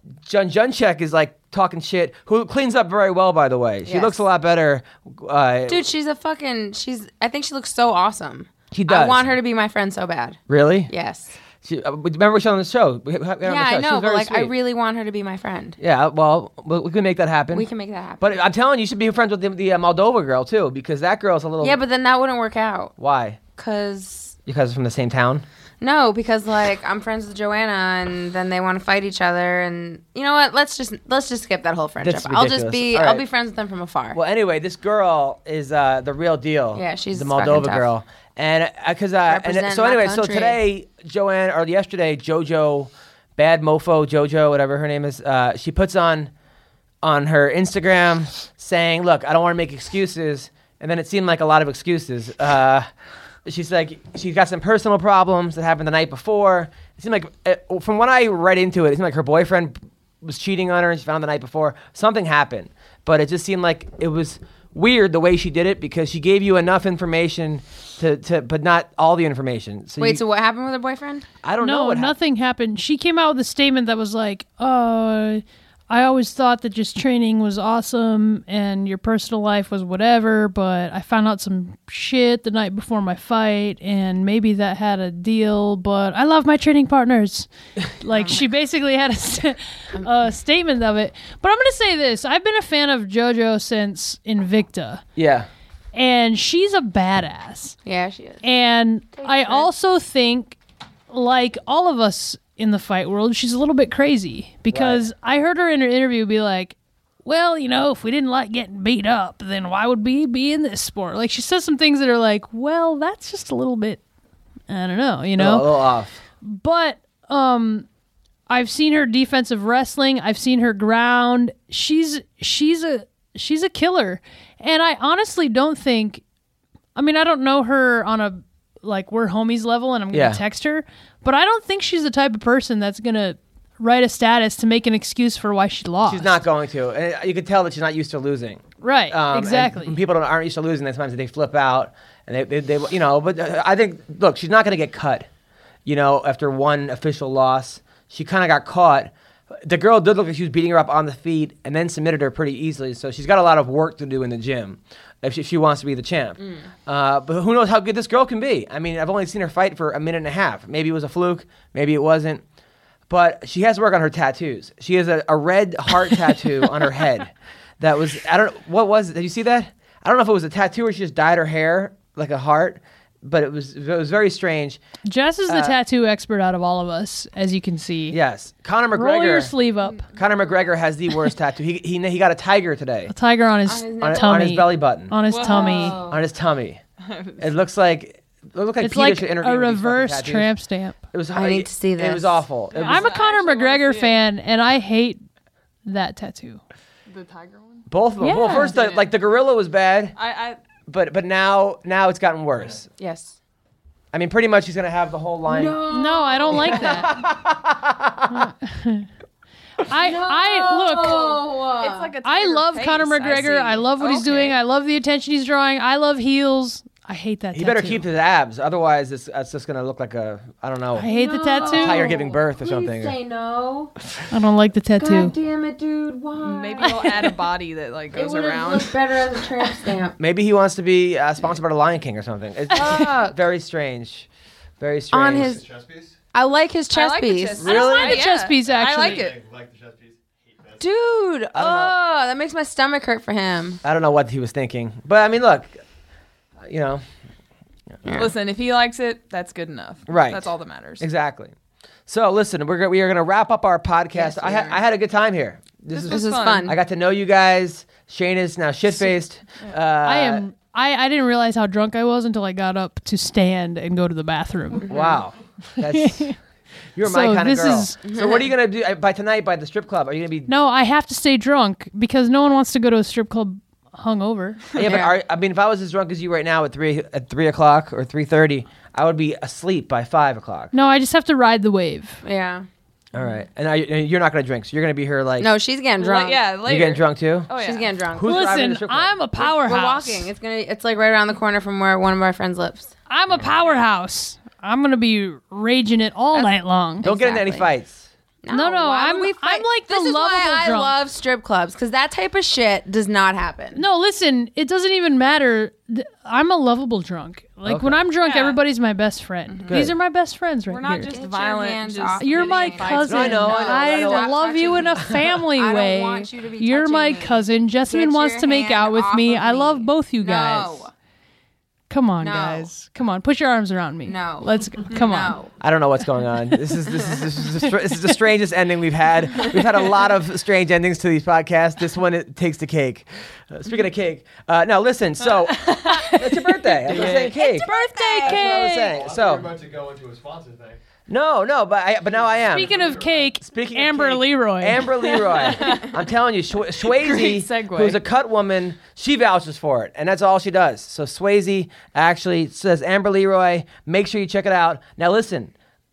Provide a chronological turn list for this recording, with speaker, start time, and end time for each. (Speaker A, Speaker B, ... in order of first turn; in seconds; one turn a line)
Speaker A: 0.2-5.9
Speaker B: 3.9-4.2
Speaker B: 5.7-11.3
Speaker A: 8.7-9.3
Speaker A: 10.5-10.9
Speaker A: 11.6-14.5
Speaker B: 13.4-15.8
Speaker A: 15.8-17.7
Speaker B: 17.5-18.4
Speaker A: 18.2-21.8
Speaker B: 21.6-22.9
Speaker A: 23.0-23.4
Speaker B: 23.6-24.4
Speaker A: 24.5-25.4
Speaker B: 25.8-34.2
Speaker A: 32.0-33.2
Speaker A: 34.1-46.3
Speaker B: 36.8-37.9
Speaker B: 39.3-40.6
Speaker A: 47.0-52.9
Speaker A: 53.5-70.2
Speaker B: 70.0-71.3
Speaker A: 71.4-72.2
Speaker C: 71.6-95.0
Speaker B: 88.2-88.4
Speaker A: 95.2-95.5
Speaker C: 95.9-97.8
Speaker B: 97.8-98.4
Speaker C: 98.4-100.6
Speaker B: 99.1-99.7
Speaker C: 101.1-114.0
Speaker A: 104.7-105.0
Speaker C: 114.7-115.7
Speaker A: 115.4-116.2
Speaker C: 116.4-117.9
Speaker C: 118.5-126.2
Speaker C: 127.0-136.4
Speaker A: 130.1-130.4
Speaker A: 136.1-145.3
Speaker C: 138.8-140.0
Speaker A: 145.9-162.4
Speaker B: 156.4-156.7
Speaker A: 163.1-174.8
Speaker C: 175.1-178.2
Speaker A: 175.5-175.8
Speaker A: 178.1-179.5
Speaker C: 178.9-180.1
Speaker D: 179.8-180.3
Speaker A: 180.2-183.1
Speaker C: 183.1-186.0
Speaker B: 183.7-184.5
Speaker A: 184.0-185.1
Speaker D: 185.3-186.0
Speaker B: 185.4-186.2
Speaker A: 186.1-186.8
Speaker D: 187.0-187.5
Speaker A: 187.4-190.5
Speaker C: 188.8-191.0
Speaker A: 191.1-193.1
Speaker B: 191.3-192.4
Speaker D: 192.7-194.2
Speaker C: 192.8-195.2
Speaker C: 195.9-196.6
Speaker D: 197.1-197.9
Speaker A: 197.9-200.2
Speaker C: 198.2-198.7
Speaker D: 198.4-199.1
Speaker D: 200.2-200.6
Speaker A: 200.9-202.9
Speaker B: 203.0-203.4
Speaker A: 204.1-205.8
Speaker B: 205.5-207.1
Speaker C: 205.9-207.2
Speaker A: 206.6-208.5
Speaker C: 208.3-209.1
Speaker C: 209.9-211.4
Speaker B: 209.9-212.1
Speaker D: 211.0-214.6
Speaker C: 212.2-218.0
Speaker A: 217.5-223.2
Speaker C: 221.0-222.1
Speaker B: 221.1-223.9
Speaker C: 224.3-225.3
Speaker B: 225.0-227.1
Speaker D: 226.4-229.0
Speaker C: 226.8-227.2
Speaker B: 228.1-230.2
Speaker A: 230.2-234.3
Speaker B: 232.7-233.4
Speaker A: 234.8-235.6
Speaker B: 235.1-235.6
Speaker E: 235.3-236.2
Speaker B: 236.3-237.7
Speaker D: 236.9-239.4
Speaker A: 237.6-238.2
Speaker C: 237.7-239.3
Speaker E: 238.7-240.9
Speaker B: 240.8-243.8
Speaker A: 241.5-242.0
Speaker A: 243.8-245.8
Speaker A: 246.6-247.0
Speaker B: 248.1-248.3
Speaker D: 248.2-251.1
Speaker A: 250.1-251.5
Speaker A: 252.1-260.4
Speaker B: 254.1-254.8
Speaker D: 255.9-256.7
Speaker B: 256.1-256.8
Speaker C: 260.0-264.9
Speaker B: 264.8-265.2
Speaker A: 264.9-266.4
Speaker C: 265.8-266.4
Speaker A: 266.9-270.5
Speaker C: 267.0-268.0
Speaker B: 268.1-268.5
Speaker C: 270.5-274.7
Speaker A: 274.8-280.7
Speaker B: 274.8-275.1
Speaker C: 280.7-282.2
Speaker B: 282.2-282.7
Speaker A: 283.1-285.5
Speaker B: 285.4-286.4
Speaker D: 286.0-287.9
Speaker A: 286.6-287.5
Speaker B: 287.6-288.4
Speaker A: 288.1-289.5
Speaker C: 288.2-290.3
Speaker B: 289.4-292.9
Speaker C: 293.1-297.1
Speaker B: 297.0-297.7
Speaker A: 297.0-298.1
Speaker B: 298.4-303.8
Speaker C: 298.5-300.9
Speaker C: 303.8-311.1
Speaker A: 307.7-308.0
Speaker D: 308.2-308.6
Speaker D: 309.5-309.7
Speaker A: 309.7-309.9
Speaker D: 310.7-313.1
Speaker B: 311.1-320.9
Speaker C: 312.2-320.9
Speaker A: 313.1-315.3
Speaker C: 321.9-325.4
Speaker B: 322.2-322.7
Speaker B: 324.1-325.5
Speaker A: 325.6-337.7
Speaker D: 335.4-336.1
Speaker C: 335.9-336.2
Speaker B: 336.9-338.8
Speaker D: 336.9-337.2
Speaker C: 337.0-338.9
Speaker A: 338.2-339.5
Speaker E: 338.9-340.8
Speaker A: 341.1-355.5
Speaker E: 342.1-343.3
Speaker C: 342.5-345.2
Speaker B: 345.3-345.8
Speaker D: 345.4-345.9
Speaker D: 346.9-348.0